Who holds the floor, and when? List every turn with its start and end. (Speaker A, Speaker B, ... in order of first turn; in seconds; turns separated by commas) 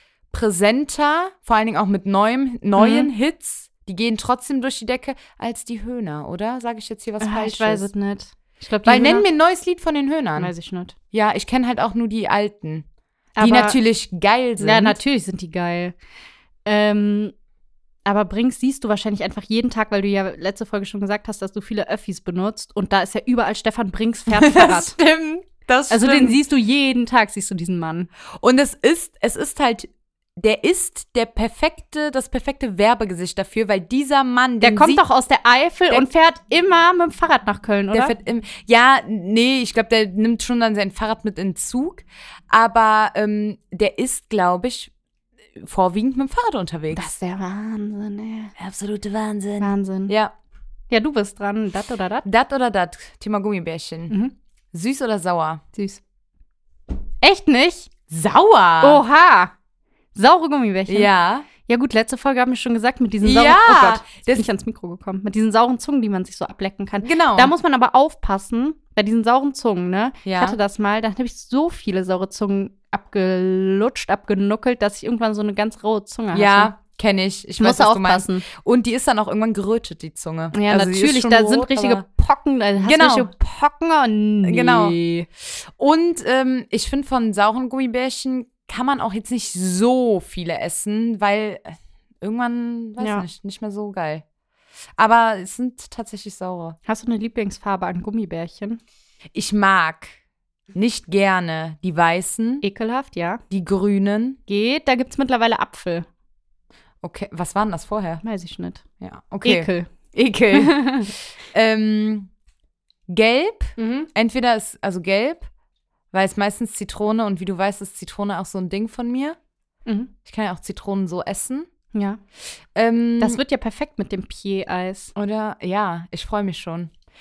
Speaker A: 0.3-7.9, Speaker B: 2.8-3.1, Speaker B: 7.2-9.2, Speaker A: 8.8-10.5, Speaker B: 10.4-10.9, Speaker A: 11.1-12.9, Speaker B: 13.4-13.8, Speaker A: 13.4-15.0, Speaker B: 14.6-15.9, Speaker B: 16.6-17.3, Speaker B: 18.1-24.9, Speaker A: 24.3-26.4, Speaker B: 25.9-28.1, Speaker A: 28.4-35.0, Speaker B: 34.6-38.1, Speaker A: 37.9-44.9, Speaker A: 45.6-47.1, Speaker B: 46.9-48.5, Speaker A: 48.6-50.3, Speaker B: 49.6-50.1, Speaker B: 50.9-52.2, Speaker A: 52.2-54.1, Speaker A: 54.7-55.6, Speaker B: 55.7-56.0, Speaker B: 57.2-57.9, Speaker A: 58.1-59.0, Speaker B: 58.8-59.5, Speaker B: 60.1-61.1, Speaker A: 60.9-61.5, Speaker B: 61.6-76.7, Speaker A: 63.2-64.5, Speaker A: 67.0-67.5, Speaker A: 70.2-70.6, Speaker A: 76.3-82.0, Speaker B: 77.6-78.4, Speaker B: 80.5-85.3, Speaker A: 82.8-83.3, Speaker A: 84.4-94.2, Speaker B: 93.0-93.2, Speaker A: 95.0-96.8, Speaker B: 96.9-98.8, Speaker A: 99.3-100.2, Speaker A: 100.7-102.6, Speaker B: 102.6-103.4, Speaker A: 103.5-104.4, Speaker B: 104.5-106.1, Speaker A: 107.0-108.2, Speaker B: 108.2-108.8, Speaker A: 109.0-112.3, Speaker B: 109.4-109.9, Speaker B: 110.5-111.1, Speaker A: 113.1-115.5, Speaker B: 113.8-114.1, Speaker A: 116.1-119.4, Speaker B: 119.9-120.1, Speaker A: 120.2-121.7, Speaker B: 121.9-122.2, Speaker A: 122.7-123.4, Speaker B: 123.2-125.1, Speaker A: 125.1-126.9